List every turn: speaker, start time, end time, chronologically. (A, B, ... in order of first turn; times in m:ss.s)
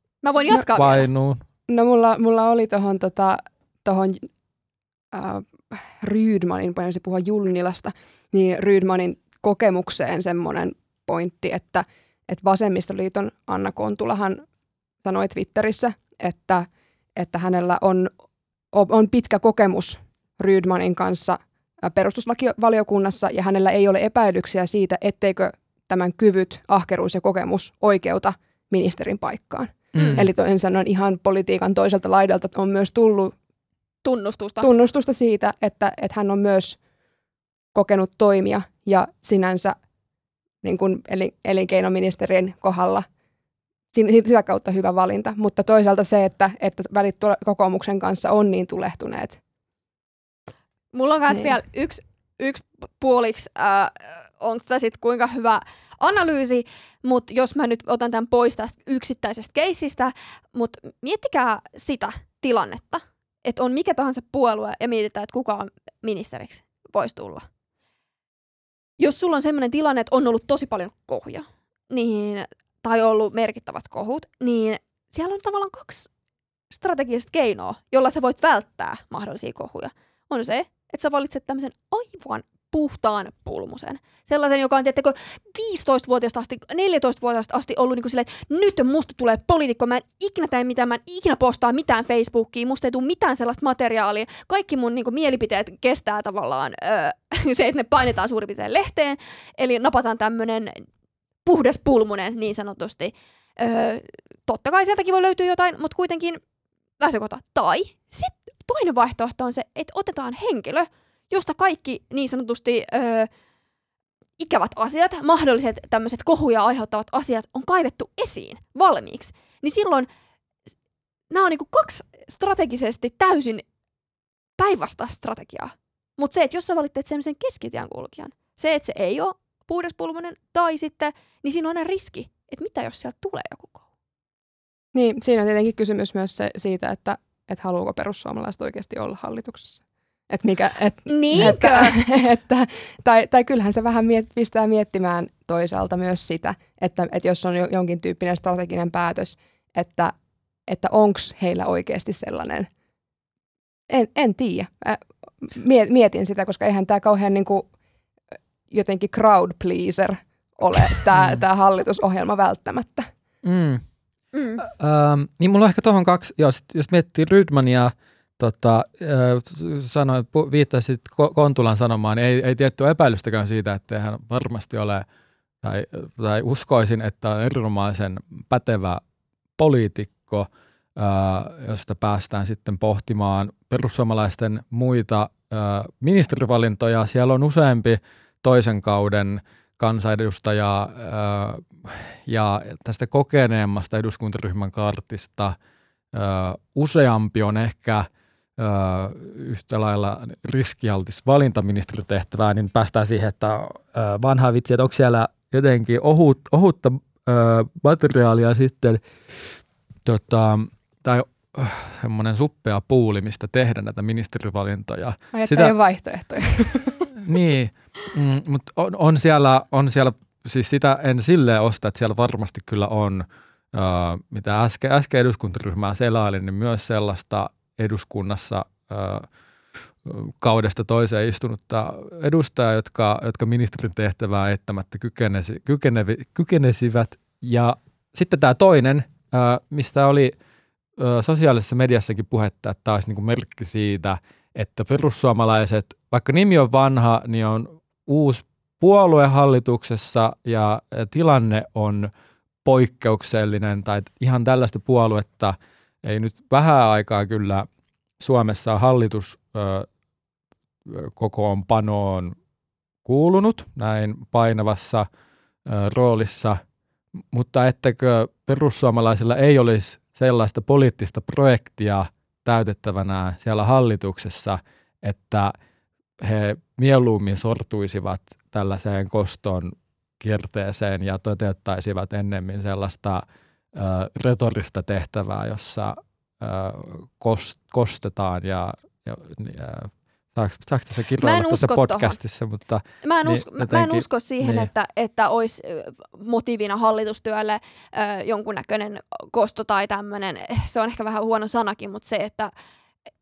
0:00.2-0:01.1 A
0:00.5-0:01.4 B
0:01.7-0:04.3 C
0:05.1-0:14.4 C
0:15.0-0:18.1 C
0:18.7-0:33.3 C
0:29.9-0:30.2 A
0:30.0-0:30.3 B
0:34.0-0:34.7 A
0:34.6-0:36.8 C
0:37.7-0:39.7 C
0:40.6-0:43.1 C
0:43.9-0:49.4 C
0:50.9-1:07.5 A
1:09.0-1:16.1 A
1:16.7-1:40.8 A
1:41.4-1:46.4 A
1:47.0-1:53.3 A
1:54.4-2:00.1 A
2:01.3-2:03.6 A
2:04.6-2:13.8 A
2:14.9-2:30.1 C
2:21.0-2:22.0 A
2:30.7-2:32.7 C
2:33.9-2:37.7 C
2:38.7-2:43.1 C
2:43.4-2:43.8 B
2:44.3-2:44.6 A
2:44.6-2:55.0 B
2:55.6-2:59.0 B
2:59.6-3:15.6 B
3:16.1-3:18.1 B
3:18.6-3:29.0 B
3:30.0-3:35.8 B
3:35.3-3:37.0 C
3:37.2-3:49.2 B
3:50.0-4:00.3 B
4:01.0-4:12.1 B
4:12.6-4:17.6 B
4:18.2-4:19.9 B
4:20.8-4:22.4 B
4:23.0-4:25.1 B
4:25.6-4:26.6 B
4:27.3-4:35.5 B
4:36.2-4:43.2 B
4:43.7-4:54.7 B
4:51.2-4:52.2 A
4:53.0-5:02.5 A